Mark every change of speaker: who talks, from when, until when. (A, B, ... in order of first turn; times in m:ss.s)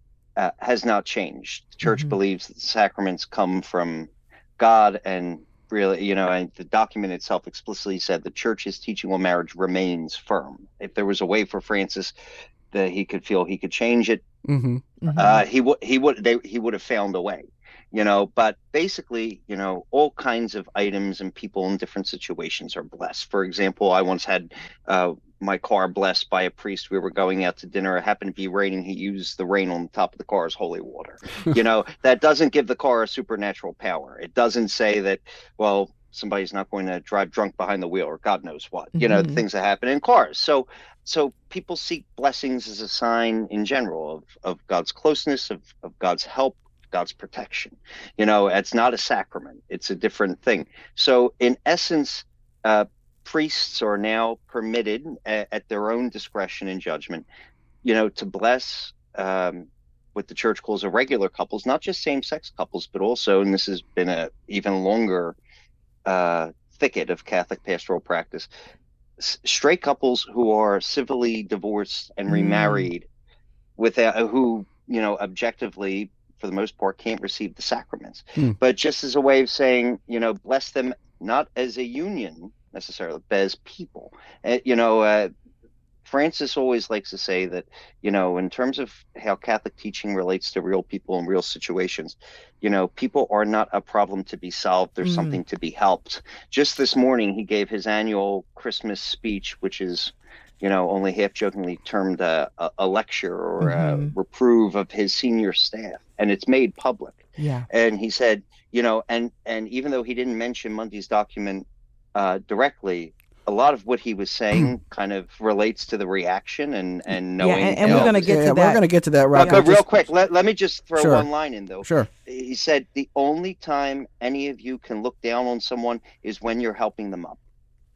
0:00.4-0:12.1 A
0:01.8-0:02.2 B
0:12.7-0:14.2 A
0:14.4-0:14.8 C
0:15.0-0:15.4 B
0:15.1-0:57.2 A
0:39.0-0:39.4 B
0:57.8-1:05.4 A
1:06.0-1:08.5 A
1:09.2-1:13.0 A
1:12.3-1:12.9 B
1:13.8-1:25.3 A
1:26.0-1:58.4 A
1:35.0-1:35.4 B
1:43.6-1:44.1 B
1:47.4-1:47.6 B
1:57.4-1:59.6 B
1:57.8-2:00.1 C
1:59.4-2:07.4 A
2:01.0-2:01.3 C
2:01.8-2:02.1 C